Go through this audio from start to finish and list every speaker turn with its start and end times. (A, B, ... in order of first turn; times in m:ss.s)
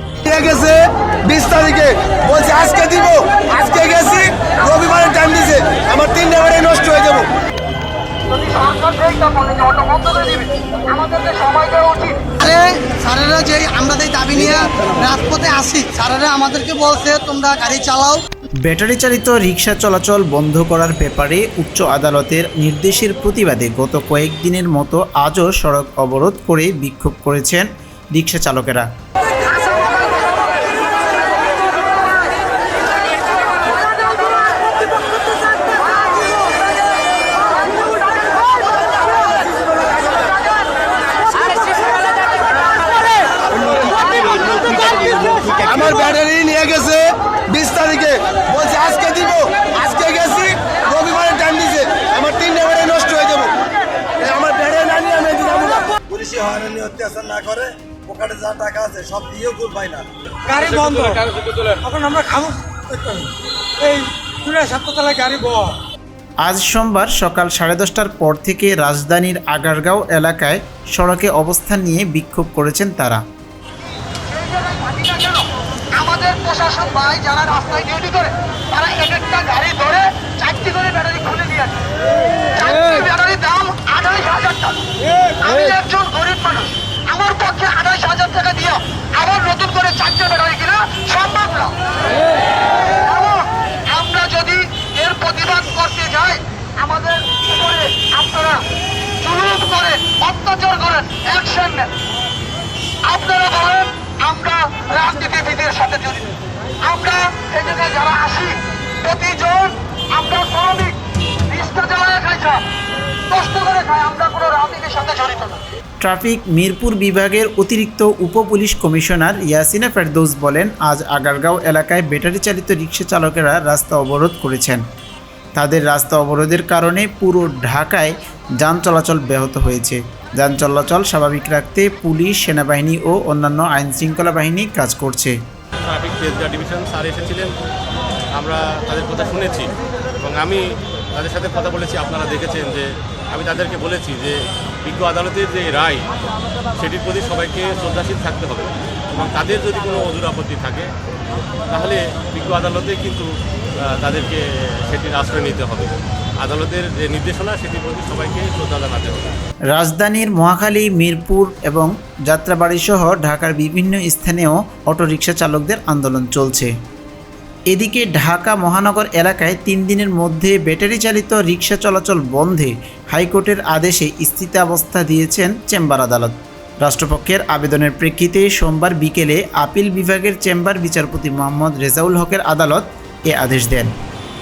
0:00.2-0:04.5 A
0:02.2-0:02.4 B
0:04.6-0:05.8 B
0:05.3-0:07.3 A
0:08.3-0:12.3 C
0:12.4-0:18.2 D
0:18.6-0:28.9 E
0:43.7-0:44.6 A
0:45.5-0:53.6 A
0:54.2-0:55.8 A
0:55.1-1:00.6 B
1:00.5-1:05.8 F
1:06.4-1:13.2 E
1:14.1-1:31.8 C
1:32.8-1:38.7 C
1:39.2-1:41.9 C
1:43.0-1:46.3 C
1:46.8-1:51.0 C
1:51.5-1:52.6 C
1:53.3-1:55.6 C
1:56.0-2:04.8 E
2:05.6-2:15.4 E
2:15.8-2:17.5 G
2:18.3-2:26.1 G
2:26.8-2:30.9 G
2:31.7-2:33.3 G
2:33.8-2:39.4 G
2:39.7-2:46.7 E
2:47.7-3:03.9 E